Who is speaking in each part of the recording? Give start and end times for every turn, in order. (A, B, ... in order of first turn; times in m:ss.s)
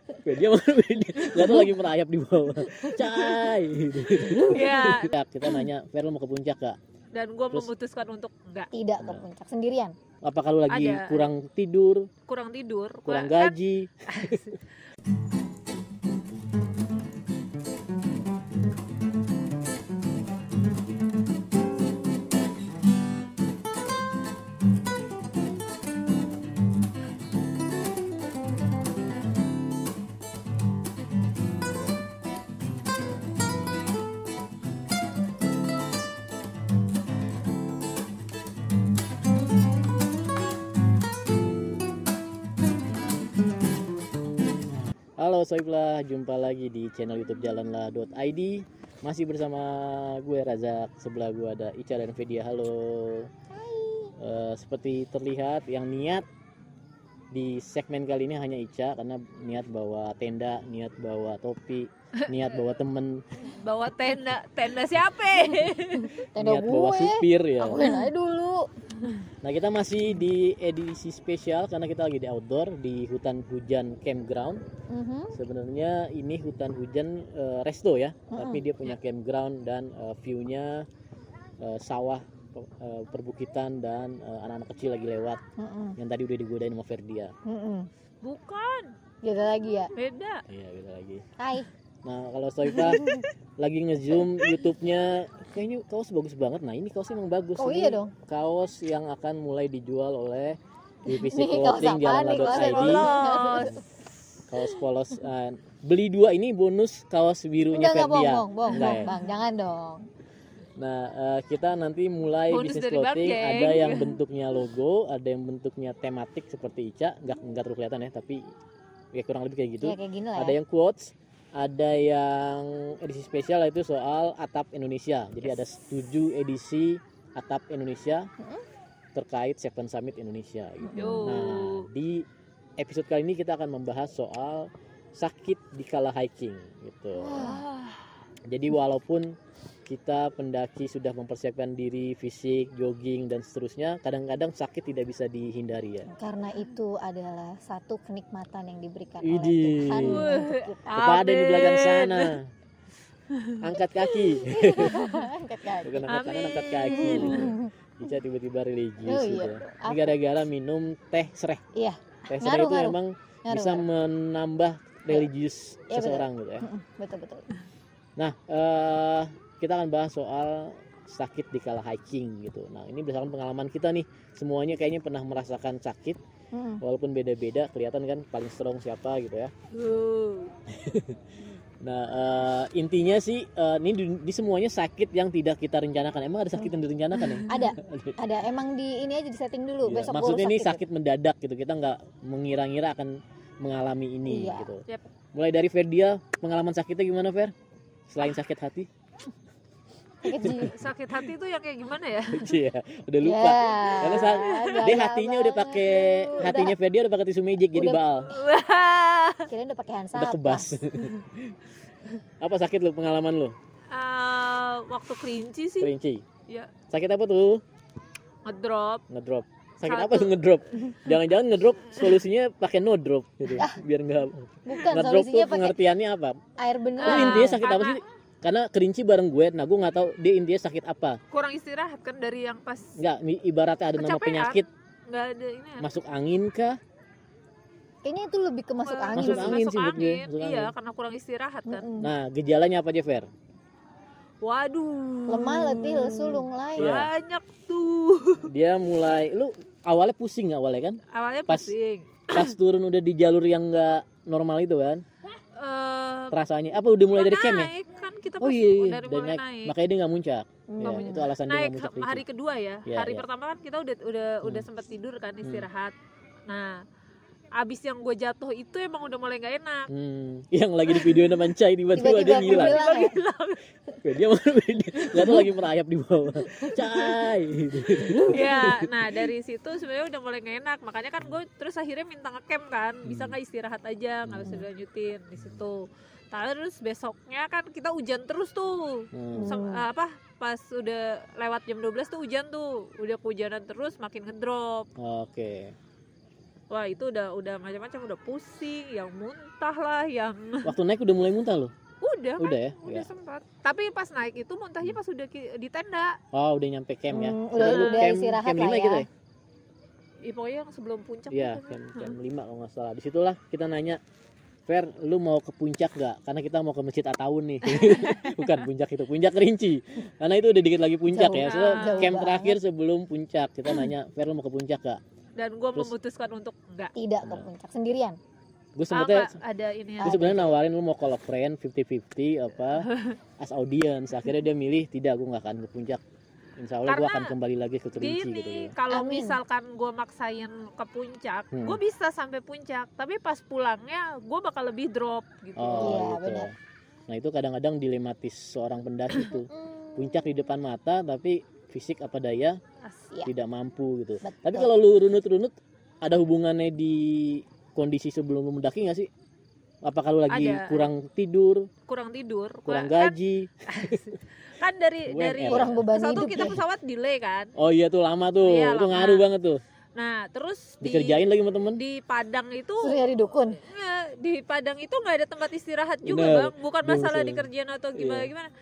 0:00.2-0:06.8 A
0:01.2-0:01.7 B
0:02.7-0:03.6 B
0:04.2-0:05.2 B
0:07.1-0:08.7 B
0:08.7-0:10.0 C
0:09.0-0:09.2 A
0:10.2-0:12.1 A
0:10.7-0:11.3 B
0:12.3-0:14.7 B
0:13.1-0:14.4 A
0:45.2-0:53.3 A
0:53.5-0:54.1 C
0:54.2-0:56.3 A
0:57.3-1:03.2 A
1:03.4-1:06.3 B
1:06.3-1:08.7 C
1:06.4-1:07.9 A
1:09.4-1:14.6 A
1:14.9-1:15.4 C
1:15.3-1:20.9 A
1:18.3-1:18.6 C
1:21.6-1:25.4 A
1:25.6-1:26.0 C
1:26.0-1:27.3 A
1:27.5-1:27.9 C
1:28.2-1:28.9 B
1:29.2-1:29.9 C
1:29.9-1:30.4 B
1:30.5-1:31.2 A
1:31.4-1:31.7 C
1:32.0-1:43.1 A
1:32.7-1:33.3 B
1:37.6-1:38.1 C
1:41.1-1:43.8 C
1:42.4-1:43.8 B
1:44.5-1:49.1 A
1:47.7-1:50.0 C
1:48.7-1:49.2 B
1:50.8-1:58.4 A
1:52.5-1:54.2 B
1:59.1-2:08.3 A
1:59.8-2:00.6 C
2:09.2-2:12.2 A
2:10.8-2:11.5 C
2:11.0-2:11.9 B
2:12.8-2:17.6 A
2:17.2-2:17.6 C
2:17.4-2:18.1 B
2:18.5-2:19.3 A
2:19.9-2:26.1 A
2:26.1-2:30.9 C
2:29.2-2:30.3 A
2:30.0-2:32.4 B
2:30.9-2:32.5 A
2:33.3-2:35.2 B
2:33.6-2:35.0 A
2:34.5-2:36.1 C
2:35.8-2:41.6 A
2:36.1-2:37.6 B
2:36.9-2:37.7 C
2:39.0-2:40.2 C
2:41.8-2:43.9 C
2:42.3-2:46.7 A
2:45.9-2:47.5 C
2:48.2-2:56.2 A
2:56.5-2:56.8 C
2:56.8-2:59.5 A
2:59.7-3:00.6 B
3:00.7-3:01.2 A
3:01.8-3:08.2 A
3:07.2-3:07.5 B
3:07.5-3:10.8 C
3:09.8-3:17.5 A
3:14.3-3:14.7 C
3:18.1-3:18.9 A
3:20.2-3:20.7 C
3:20.2-3:20.9 A
3:20.6-3:22.5 B
3:22.3-3:28.3 A
3:23.2-3:26.8 C
3:24.0-3:24.8 B
3:25.8-3:26.4 B
3:27.7-3:28.0 C
3:28.3-3:29.5 B
3:29.5-3:30.7 C
3:30.1-3:31.6 A
3:32.4-3:33.6 A
3:33.9-3:35.9 B
3:35.8-3:36.2 A
3:36.9-3:37.6 A
3:38.4-3:39.0 B
3:39.1-3:46.4 A
3:39.9-3:40.4 B
3:44.7-3:45.8 C
3:46.6-3:47.6 C
3:47.0-3:48.0 B
3:47.0-3:51.2 A
3:51.3-3:53.0 B
3:53.0-3:54.7 A
3:54.0-3:55.9 B
3:55.8-3:56.8 A
3:58.0-3:59.6 C
3:58.9-4:01.9 B
3:59.2-4:00.7 A
4:01.7-4:02.1 C
4:02.0-4:03.3 A
4:04.4-4:08.5 B
4:05.3-4:06.9 C
4:06.8-4:07.1 A
4:08.5-4:11.7 A
4:11.1-4:12.6 B
4:12.3-4:15.0 A
4:15.6-4:16.4 B
4:16.3-4:17.7 A
4:17.1-4:19.8 B
4:18.4-4:22.2 A
4:20.7-4:21.3 C
4:21.0-4:26.0 B
4:22.9-4:23.3 A
4:24.4-4:24.7 A
4:26.5-4:26.8 B
4:27.6-4:29.9 B
4:29.9-4:32.8 A
4:31.0-4:31.2 B
4:32.0-4:33.2 C
4:32.1-4:33.6 B
4:34.0-4:39.2 A
4:38.2-4:54.9 B
4:43.0-4:43.4 A
4:44.2-4:44.7 A
4:49.1-4:49.6 A
4:49.4-4:49.8 C
4:55.0-4:55.8 A
4:56.7-5:00.7 B
5:00.6-5:01.7 A
5:02.0-5:06.2 B
5:02.4-5:03.1 A
5:06.3-5:09.1 A
5:07.1-5:09.1 C
5:07.6-5:08.1 B
5:10.2-5:12.2 B
5:11.3-5:14.0 A
5:14.7-5:25.0 A
5:17.6-5:18.5 B
5:21.1-5:22.6 C
5:21.4-5:22.2 B
5:25.4-5:26.9 B
5:27.0-5:28.2 C
5:27.2-5:27.5 A
5:28.8-5:29.4 A
5:28.9-5:30.2 B
5:30.0-5:30.6 C
5:30.0-5:32.9 A
5:32.8-5:33.2 B
5:33.4-5:36.0 A
5:36.6-5:38.7 A
5:36.9-5:37.4 B
5:38.0-5:46.0 B
5:38.9-5:39.4 C
5:41.5-5:41.8 A
5:45.6-5:46.5 A
5:45.8-5:46.5 C
5:47.1-5:52.6 A
5:49.5-5:50.2 C
5:53.2-5:59.1 A
5:54.2-5:54.7 C
5:59.8-6:01.7 A
6:00.3-6:00.9 B
6:01.9-6:03.2 B
6:02.7-6:04.0 A
6:03.7-6:07.5 B
6:05.1-6:05.8 A
6:05.5-6:06.6 C
6:07.6-6:09.6 A
6:08.4-6:09.2 B
6:10.0-6:18.5 B
6:10.8-6:11.8 A
6:12.8-6:13.6 C
6:16.0-6:18.3 A